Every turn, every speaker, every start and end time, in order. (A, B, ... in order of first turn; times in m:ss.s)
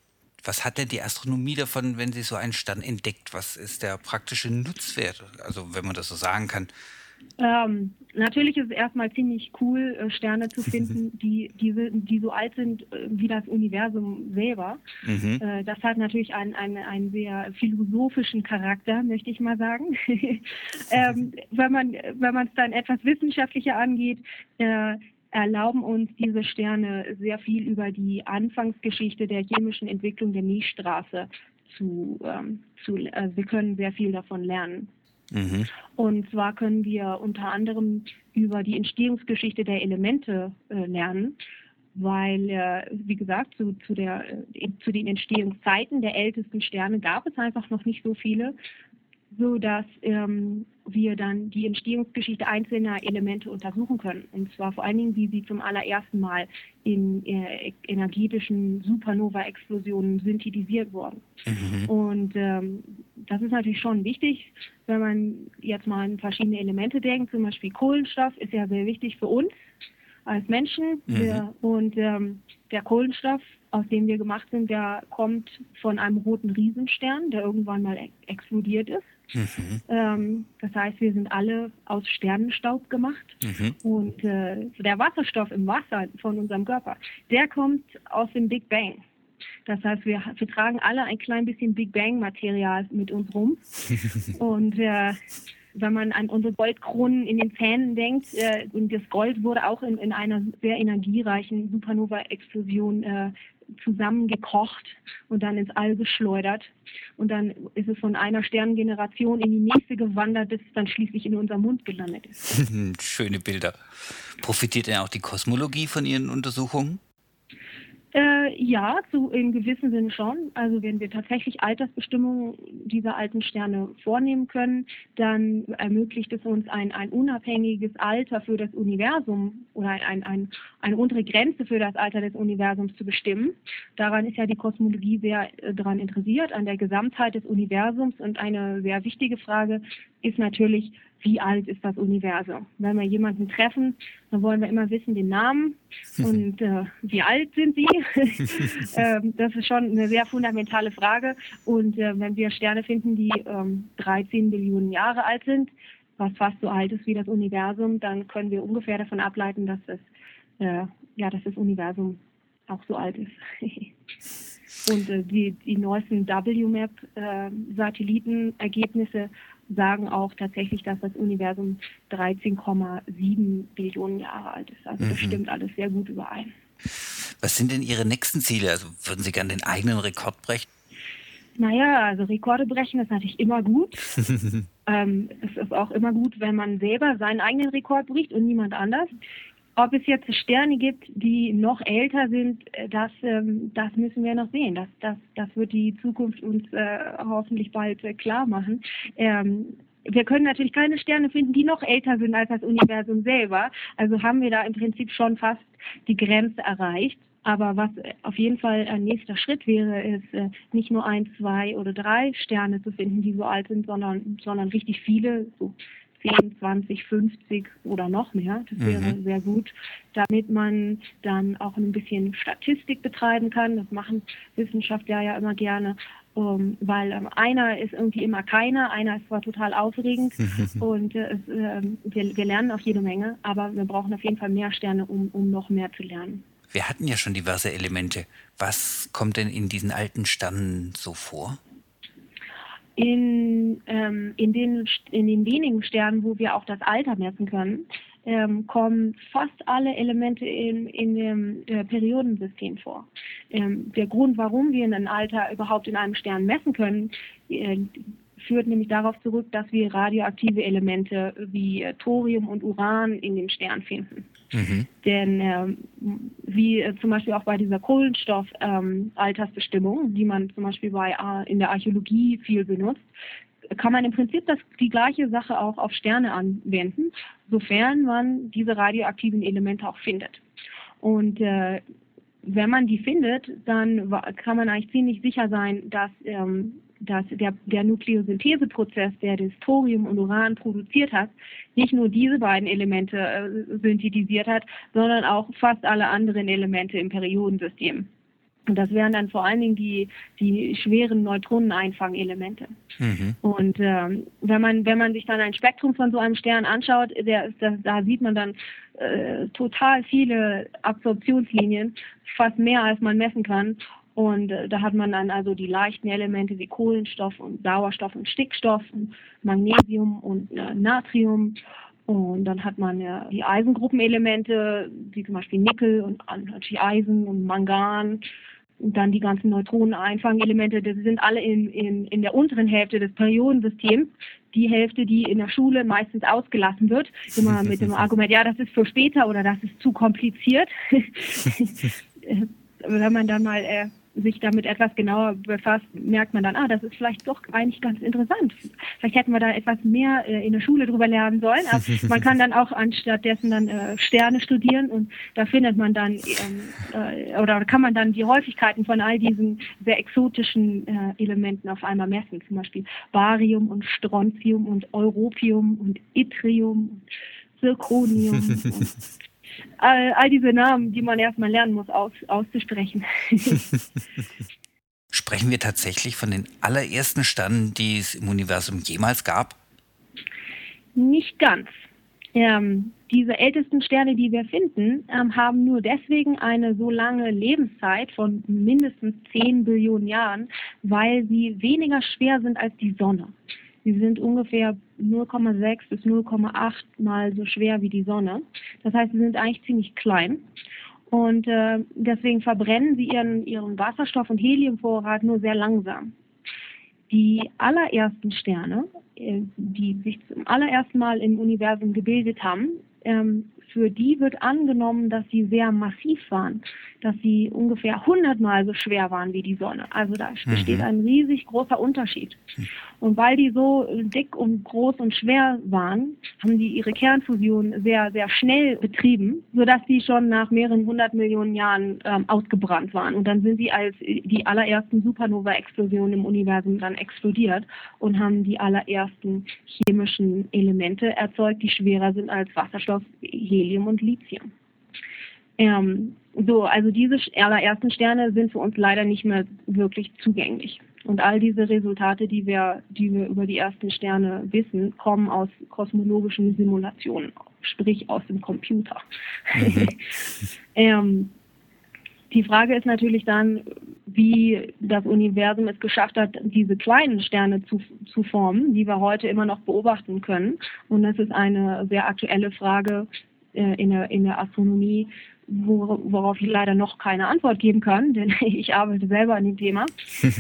0:00.4-0:06.7 A
0:07.4-0:14.8 B
0:15.0-0:15.4 A
0:15.4-0:34.9 B
0:35.3-0:35.7 A
0:36.0-0:41.4 B
0:42.0-0:48.6 B
0:49.3-1:01.2 B
1:01.5-1:01.9 A
1:01.9-1:09.5 B
1:10.3-1:19.2 B
1:11.1-1:11.4 A
1:19.3-1:19.8 A
1:19.9-1:29.0 B
1:23.4-1:23.8 A
1:29.7-1:35.2 B
1:35.7-1:52.4 B
1:52.4-1:57.0 A
1:58.1-2:40.1 B
2:40.6-2:43.9 B
2:44.8-2:56.5 B
2:55.0-2:55.4 A
2:57.4-3:00.7 A
3:01.6-3:04.1 B
3:04.9-3:09.1 B
3:09.8-3:56.4 B
3:38.8-3:39.2 A
3:50.4-3:50.8 A
3:56.7-4:01.6 A
4:03.0-4:24.3 B
4:24.5-4:24.9 A
4:25.0-4:33.1 B
4:33.7-4:40.4 B
4:41.0-4:41.8 B
4:42.4-4:58.1 B
4:58.7-5:02.8 B
5:03.0-5:03.4 A
5:03.4-5:28.3 B
5:28.8-6:07.0 B
6:07.6-6:09.0 B
6:09.8-6:13.7 B
6:15.1-6:19.6 A
6:21.0-6:21.8 B
6:22.4-6:33.3 B
6:33.8-6:40.4 B
6:41.1-6:46.1 B
6:47.1-7:02.4 B
7:00.5-7:00.9 A
7:03.0-7:24.5 B
7:25.6-7:40.0 B
7:39.6-7:40.0 A
7:40.8-7:41.3 B
7:42.3-7:59.9 B